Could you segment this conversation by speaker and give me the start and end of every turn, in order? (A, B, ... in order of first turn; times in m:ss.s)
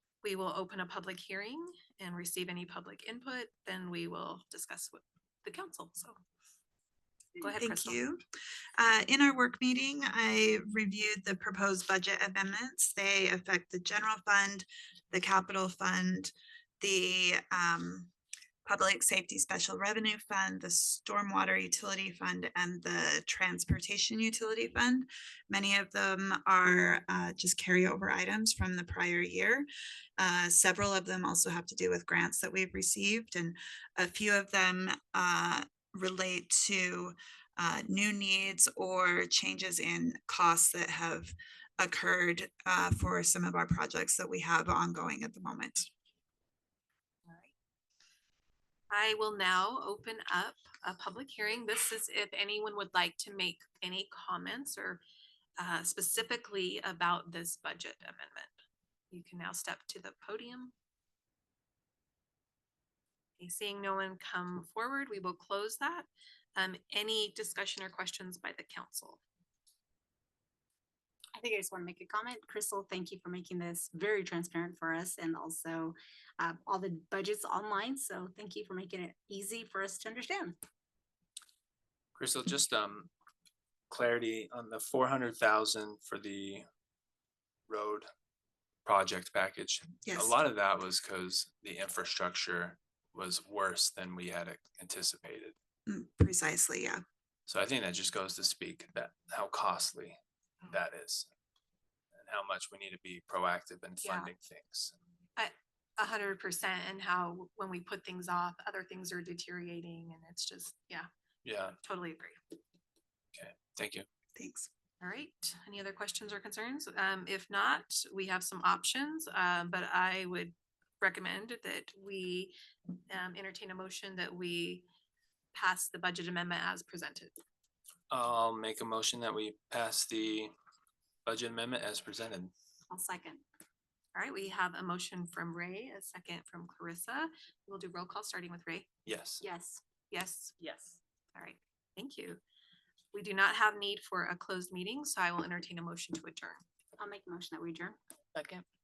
0:00.2-0:06.2 A
0:07.4-0:08.0 A
0:07.5-0:08.2 B
0:08.8-0:18.1 B
0:18.6-0:29.7 B
0:30.2-0:45.9 B
0:47.3-0:47.5 A
0:48.9-0:55.0 A
0:55.6-0:58.5 A
0:59.1-1:00.7 A
1:03.4-1:09.2 A
1:11.3-1:20.6 C
1:22.1-1:23.1 D
1:23.9-1:26.6 D
1:27.7-1:28.1 D
1:28.8-1:35.6 D
1:30.0-1:30.4 B
1:35.9-1:37.0 B
1:37.5-1:41.3 D
1:42.1-1:44.9 D
1:44.0-1:44.3 A
1:45.4-1:51.1 A
1:51.4-1:51.8 D
1:51.8-1:52.4 A
1:53.3-1:54.0 D
1:54.4-1:54.7 B
1:55.0-2:02.5 A
2:03.1-2:04.8 A
2:05.5-2:07.3 A
2:08.1-2:10.5 D
2:11.2-2:12.5 D
2:12.9-2:13.4 C
2:14.1-2:18.9 A
2:19.0-2:19.4 D
2:19.4-2:19.8 C
2:20.1-2:20.5 A
2:20.6-2:21.0 D
2:21.3-2:22.4 A
2:23.1-2:26.6 A
2:27.0-2:28.0 C
2:28.3-2:28.6 D